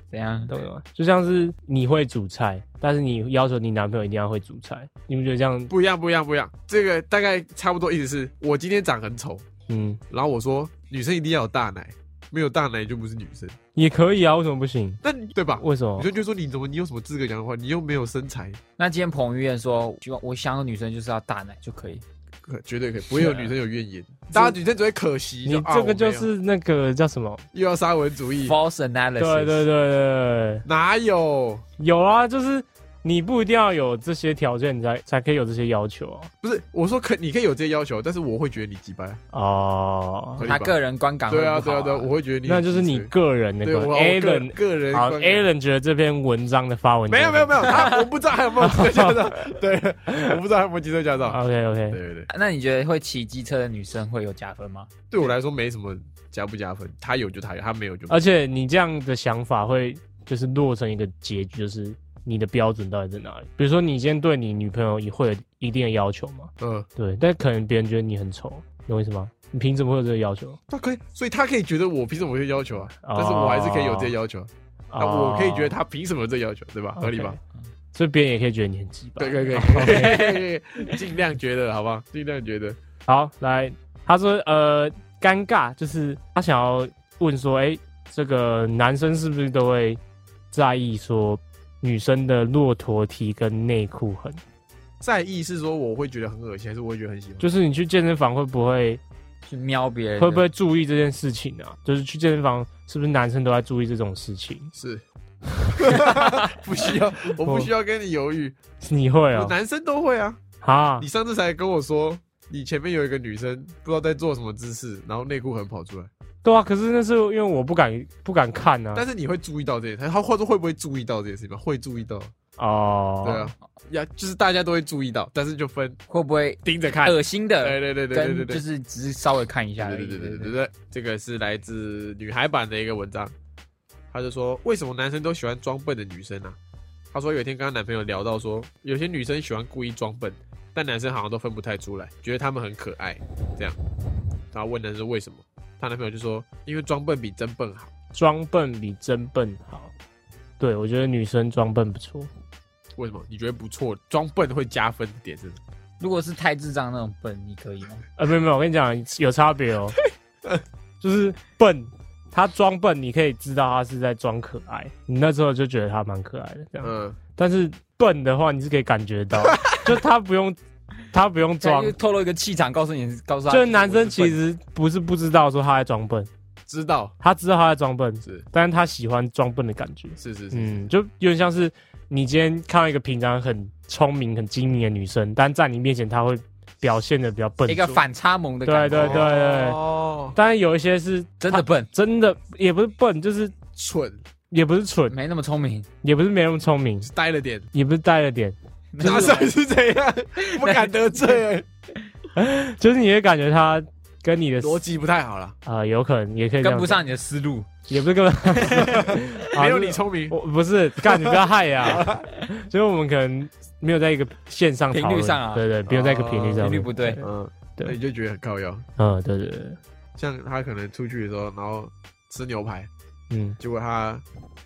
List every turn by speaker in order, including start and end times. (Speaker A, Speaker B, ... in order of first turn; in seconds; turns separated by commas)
Speaker A: 0.1-0.5, Speaker B: 0.5-5.7, Speaker C: 5.7-9.4, Speaker B: 9.7-10.0, Speaker C: 10.1-13.6, Speaker B: 13.8-15.0, Speaker C: 15.0-18.6, Speaker B: 15.6-16.1, Speaker A: 18.8-22.0, Speaker C: 22.5-26.3, Speaker A: 23.1-23.5, Speaker B: 25.5-27.4, Speaker C: 27.5-28.6, Speaker A: 28.4-29.7, Speaker B: 29.2-30.6, Speaker C: 30.7-31.6, Speaker B: 31.8-36.3, Speaker C: 36.4-39.2, Speaker B: 39.3-40.5, Speaker C: 40.4-40.8, Speaker A: 40.4-42.1, Speaker C: 41.3-43.1, Speaker B: 42.5-48.0, Speaker C: 43.6-45.5, Speaker C: 47.1-51.4, Speaker B: 48.6-49.1, Speaker B: 51.3-52.0, Speaker C: 51.9-52.3, Speaker A: 52.3-54.9, Speaker C: 55.1-58.2, Speaker B: 58.1-70.6, Speaker C: 66.6-66.9, Speaker C: 70.7-77.4, Speaker B: 73.0-74.2, Speaker B: 74.9-75.8, Speaker B: 77.0-77.4, Speaker B: 77.9-80.2, Speaker C: 79.2-82.8, Speaker A: 79.8-80.4, Speaker B: 83.1-90.0, Speaker B: 90.5-94.4, Speaker C: 95.0-97.5, Speaker B: 97.4-99.0, Speaker A: 99.5-100.5, Speaker B: 100.2-104.7, Speaker C: 104.8-105.0, Speaker B: 105.6-106.1, Speaker C: 105.7-108.6, Speaker B: 107.4-107.7, Speaker B: 108.8-109.6, Speaker C: 109.3-110.4, Speaker B: 110.6-111.1, Speaker C: 111.0-116.1, Speaker B: 116.4-119.1, Speaker C: 118.9-122.3, Speaker B: 122.6-123.5, Speaker C: 123.2-126.0, Speaker A: 126.1-130.5, Speaker C: 126.7-128.6, Speaker C: 129.8-133.3, Speaker C: 134.1-136.6, Speaker C: 137.1-143.8, Speaker C: 144.5-147.9, Speaker B: 148.1-149.9, Speaker B: 150.6-152.3, Speaker C: 153.0-155.6, Speaker A: 156.0-158.1, Speaker B: 158.2-160.0, Speaker C: 160.0-160.6, Speaker B: 161.0-170.6, Speaker C: 166.8-167.2, Speaker C: 169.5-169.8, Speaker B: 171.1-171.9, Speaker A: 171.6-174.4, Speaker B: 173.5-176.3, Speaker C: 176.7-177.2, Speaker B: 177.2-188.0, Speaker C: 180.2-180.9, Speaker A: 187.7-189.3, Speaker B: 188.7-189.8, Speaker C: 188.9-190.4, Speaker B: 190.3-193.6, Speaker A: 191.4-191.9, Speaker C: 193.8-194.2, Speaker B: 194.5-195.2, Speaker A: 195.1-195.9, Speaker B: 196.0-197.1, Speaker C: 197.1-197.7, Speaker B: 197.7-199.4, Speaker A: 198.9-199.5, Speaker C: 199.0-201.7, Speaker A: 200.4-200.9, Speaker B: 202.4-204.8, Speaker C: 204.6-205.6, Speaker B: 205.7-207.0, Speaker A: 206.6-207.7, Speaker B: 207.9-218.0, Speaker A: 208.6-209.3, Speaker C: 208.8-210.4, Speaker C: 211.0-212.3, Speaker A: 214.9-215.7, Speaker C: 215.9-218.8, Speaker A: 216.6-217.2, Speaker B: 219.0-219.8, Speaker C: 220.2-222.9, Speaker B: 223.3-223.6, Speaker C: 223.6-224.2